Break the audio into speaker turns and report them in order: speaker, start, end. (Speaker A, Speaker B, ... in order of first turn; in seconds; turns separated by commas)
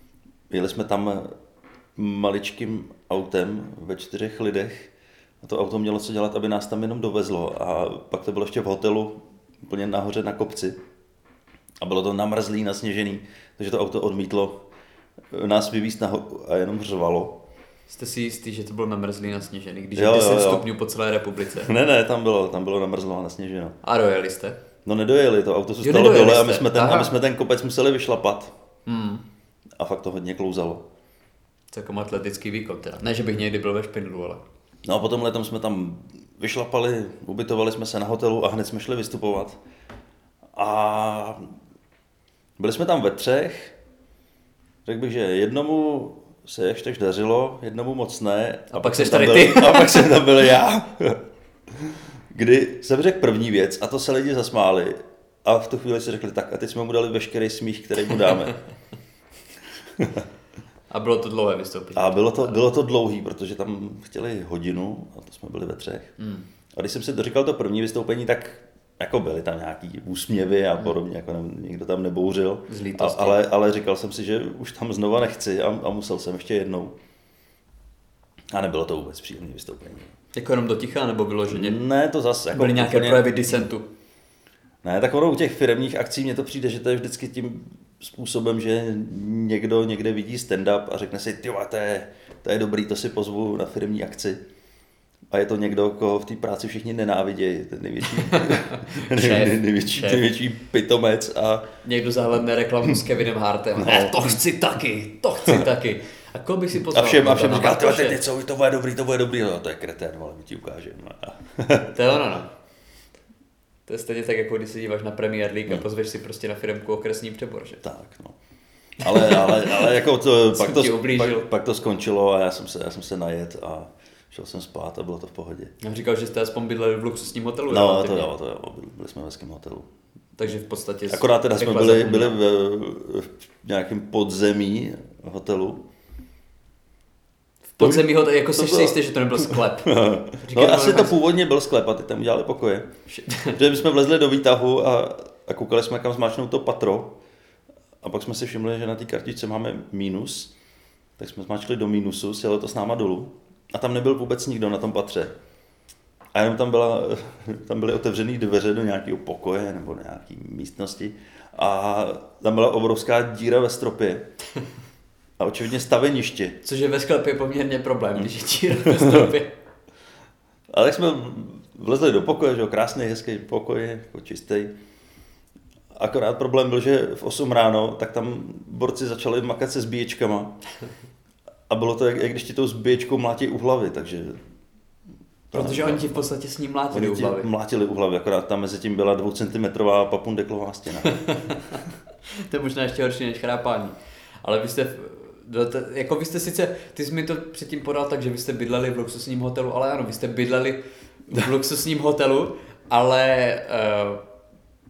Speaker A: 0.5-1.3, Speaker A: 1.9-4.9, Speaker A: 5.4-10.8, Speaker A: 11.8-14.6, Speaker A: 15.3-17.4, Speaker B: 17.9-21.7, Speaker A: 19.9-20.7, Speaker A: 21.6-23.8, Speaker B: 23.8-24.6, Speaker A: 24.8-28.5, Speaker B: 25.8-27.1, Speaker B: 28.9-29.2, Speaker A: 29.8-30.8, Speaker B: 31.7-34.4, Speaker A: 34.8-39.6, Speaker A: 40.5-41.5, Speaker A: 42.6-43.7, Speaker A: 44.8-58.6, Speaker B: 48.7-50.2, Speaker A: 60.0-60.2, Speaker B: 60.9-62.6, Speaker A: 61.9-66.1, Speaker B: 66.2-66.5, Speaker A: 66.7-76.9, Speaker B: 72.7-73.4, Speaker A: 78.5-80.1, Speaker B: 80.3-81.8, Speaker A: 81.5-83.2, Speaker B: 82.5-83.8, Speaker A: 84.8-94.4, Speaker A: 95.3-101.7, Speaker B: 98.1-100.2, Speaker B: 101.8-108.2, Speaker A: 103.8-104.4, Speaker A: 106.8-112.0, Speaker B: 111.9-112.5, Speaker B: 113.9-117.8, Speaker A: 117.8-118.3, Speaker A: 119.0-125.7, Speaker B: 119.0-121.5, Speaker B: 125.8-128.3, Speaker A: 127.7-129.9, Speaker B: 130.4-132.4, Speaker A: 131.1-135.8, Speaker B: 137.8-141.2, Speaker A: 137.8-142.9, Speaker B: 143.1-143.6, Speaker A: 143.5-147.2, Speaker A: 148.0-150.5, Speaker A: 151.2-155.3, Speaker A: 156.3-164.3, Speaker A: 165.4-166.6, Speaker B: 166.6-169.5, Speaker A: 168.7-169.3, Speaker A: 170.7-174.7, Speaker A: 175.9-180.6, Speaker A: 181.7-184.4, Speaker A: 185.5-186.2, Speaker B: 185.5-187.5, Speaker A: 186.9-191.2, Speaker B: 191.0-191.8, Speaker B: 192.3-204.2